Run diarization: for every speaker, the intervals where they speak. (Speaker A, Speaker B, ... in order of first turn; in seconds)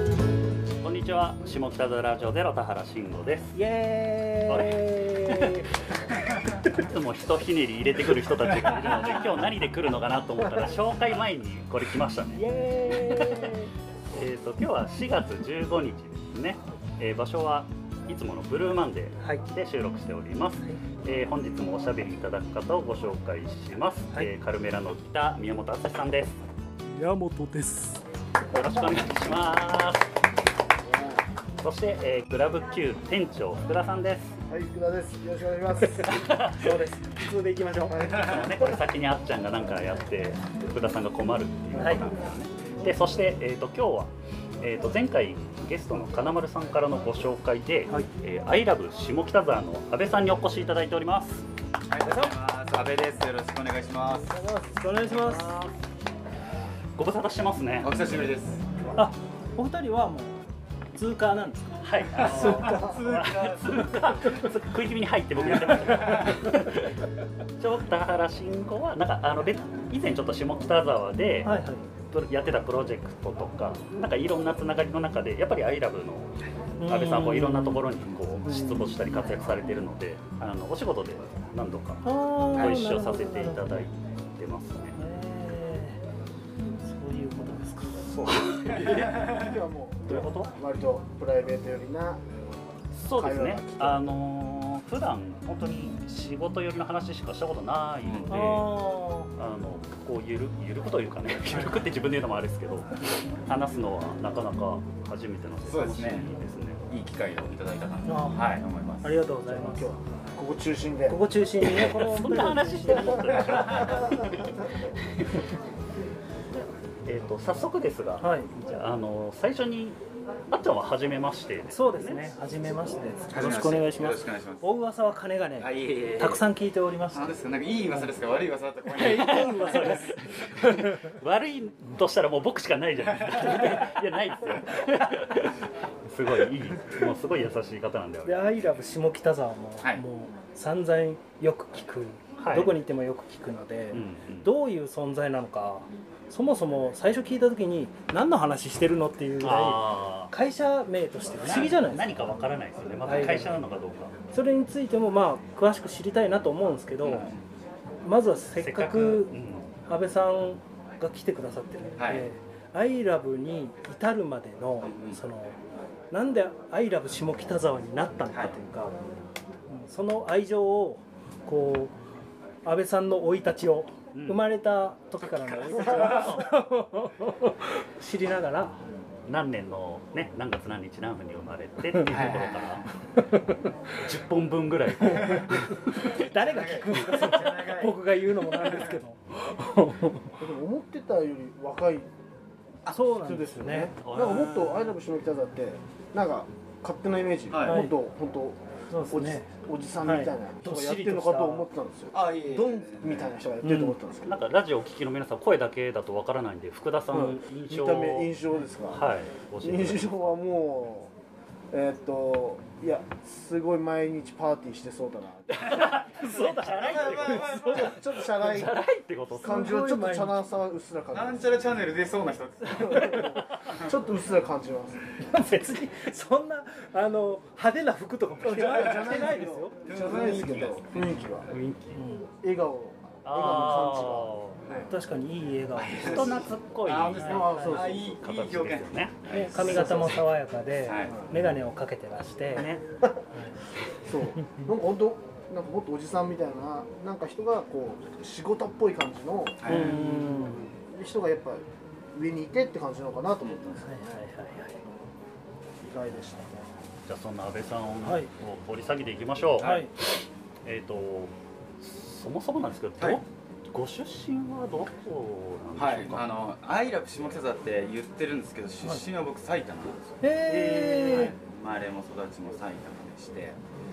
Speaker A: 0.8-3.6, 4.5-5.6, 6.7-13.5, 14.1-26.4, 28.5-30.1, 31.6-34.4, 36.0-36.8, 38.1-51.5, 55.1-55.8, 57.0-57.9, 61.8-67.1, 67.6-71.5, 72.1-85.0, 88.1-89.2, 90.1-90.5, 92.9-98.8, 99.3-106.8, 111.6-115.5, 117.0-120.0, 120.5-122.3, 129.0-138.6, 142.4-142.8, 143.9-144.5, 149.4-150.3, 151.4-154.2, 158.6-159.8, 174.1-174.5, 175.7-176.5, 179.3-182.9, 184.0-186.1, 194.0-194.9, 203.6-208.3, 208.9-210.3, 215.6-219.7, 223.2-223.5, 231.0-231.9, 233.2-234.8, 236.0-239.3, 242.6-242.8, 257.1-259.8, 260.6-266.3
Speaker B: 3.5-5.8, 12.3-13.7, 19.2-19.6, 26.8-28.0, 36.5-38.2, 41.8-42.1, 54.8-55.5, 59.0-60.4, 60.9-62.7, 71.4-71.9, 76.8-77.9, 78.5-79.8, 82.0-83.9, 84.9-86.0, 86.8-88.2, 98.3-99.3, 101.5-101.8, 108.1-110.0, 111.1-113.5, 118.2-118.8, 121.7-127.4, 128.9-130.2, 138.2-152.3, 153.0-153.6, 154.3-157.3, 158.0-165.6, 166.1-169.0, 169.7-171.9, 172.6-178.8, 186.0-190.3, 192.9-193.9, 197.7-198.0, 198.9-199.5, 200.0-201.7, 215.9-218.0, 219.4-220.4, 225.2-229.7, 231.9-232.3, 234.9-236.5, 239.3-242.8, 249.7-250.7, 253.8-254.8, 258.0-258.3, 259.6-259.9, 270.2-271.4
Speaker C: 8.7-9.1, 51.9-54.4, 57.8-58.6, 62.1-64.5, 65.4-66.5, 88.8-89.5, 98.0-98.5, 105.7-106.3, 106.9-109.2, 113.3-114.0, 123.3-124.7, 125.6-126.4, 127.1-130.1, 133.4-133.8, 151.5-151.7, 157.0-157.4, 162.0-162.3, 164.8-165.2, 168.3-168.6, 175.3-176.4, 182.0-182.9, 185.2-185.4, 186.0-189.0, 197.5-197.9, 202.1-203.4, 216.7-218.2, 221.1-223.2, 228.7-231.2, 235.8-240.2, 240.8-241.3, 249.6-250.1, 253.4-253.8, 259.6-259.9, 265.8-273.6
Speaker D: 30.9-31.2, 34.5-36.2, 37.9-38.8, 54.2-54.9, 88.9-92.3, 93.2-94.1, 109.5-111.2, 114.0-114.5, 190.4-192.1, 193.2-204.4, 207.1-209.1, 209.6-211.1, 211.7-215.7, 217.7-218.8, 219.3-221.6, 222.7-225.0, 228.4-231.5, 232.4-234.9, 237.2-238.2, 241.0-241.4, 244.0-249.8, 250.9-254.0, 255.8-256.7